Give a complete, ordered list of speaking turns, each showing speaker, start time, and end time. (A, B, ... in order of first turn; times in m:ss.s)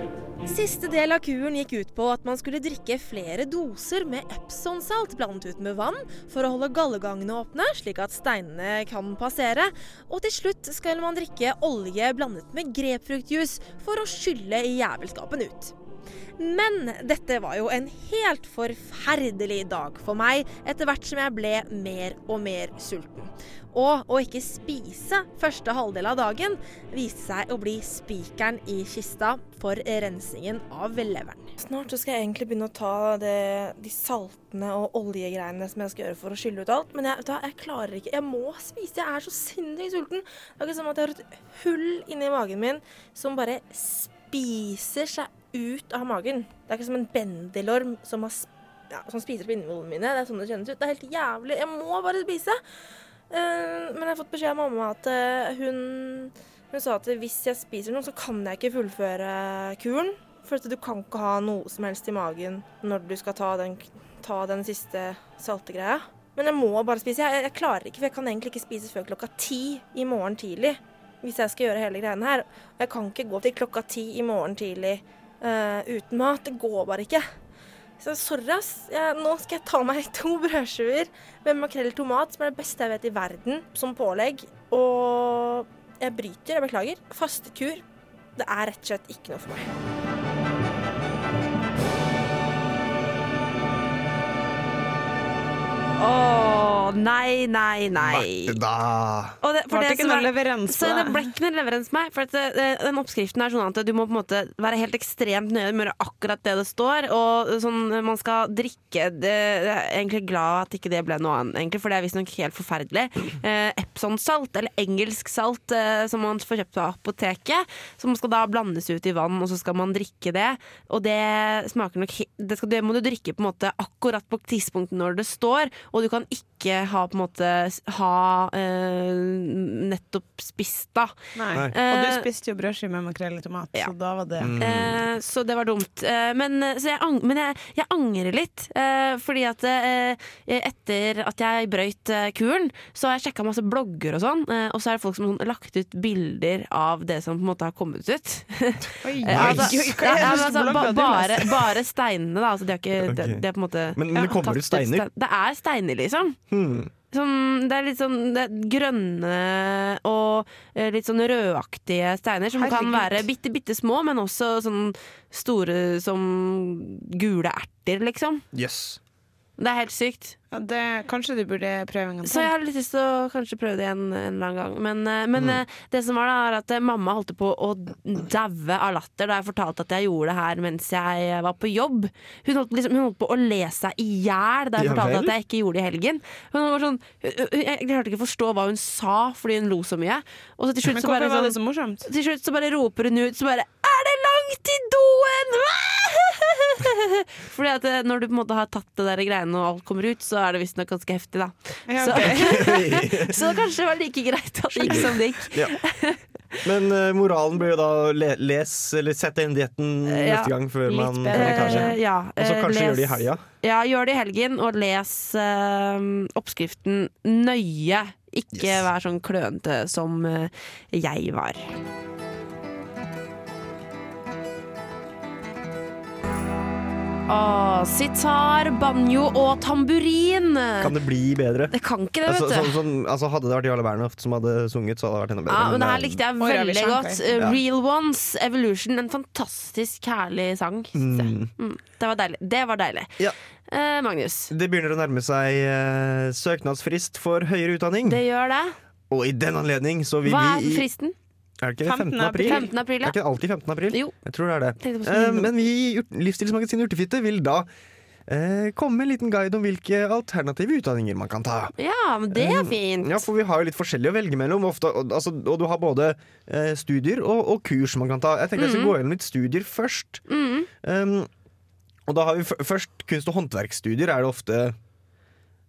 0:00.4-0:15.7 A
0:16.4-0:31.5 A
0:31.6-0:52.6 B
0:53.3-1:17.2 B
1:18.0-1:27.8 B
1:28.4-1:29.6 B
1:36.0-1:38.6 C
1:37.9-1:39.4 D
1:39.4-2:11.1 C
1:39.7-1:41.3 E
2:11.4-2:14.5 E
2:11.7-2:12.2 C
2:14.4-2:15.0 D
2:14.6-2:36.4 C
2:29.0-2:31.6 E
2:29.3-2:30.4 D
2:33.0-2:35.0 D
2:36.5-2:36.9 D
2:37.1-2:48.4 C
2:42.6-2:43.2 E
2:48.5-2:49.0 D
2:49.6-2:50.4 C
2:50.5-2:52.5 E
2:52.2-3:26.6 C
2:55.4-2:55.6 D
3:04.8-3:05.3 D
3:10.9-3:12.1 E
3:21.9-3:22.6 E
3:22.1-3:23.5 D
3:24.7-3:25.8 D
3:26.6-3:33.4 D
3:30.0-3:41.8 C
3:31.0-3:31.9 E
3:38.5-3:38.9 D
3:47.3-3:50.9 C
3:50.8-3:51.7 D
3:51.7-3:52.8 C
3:52.2-3:56.2 D
3:55.5-4:03.1 C
3:56.4-3:57.4 E
4:00.9-4:01.5 D
4:03.7-4:04.5 C
4:04.5-4:08.2 D
4:08.0-4:08.8 C
4:09.1-4:10.8 D
4:10.2-4:11.1 C
4:11.6-4:17.7 D
4:11.8-4:12.7 E
4:12.4-4:13.2 C
4:14.8-4:15.5 C
4:18.3-4:21.7 D
4:21.8-4:23.2 C
4:22.3-4:30.2 D
4:28.6-4:28.9 C
4:30.3-4:30.7 C
4:30.8-4:31.3 D
4:32.1-4:34.8 D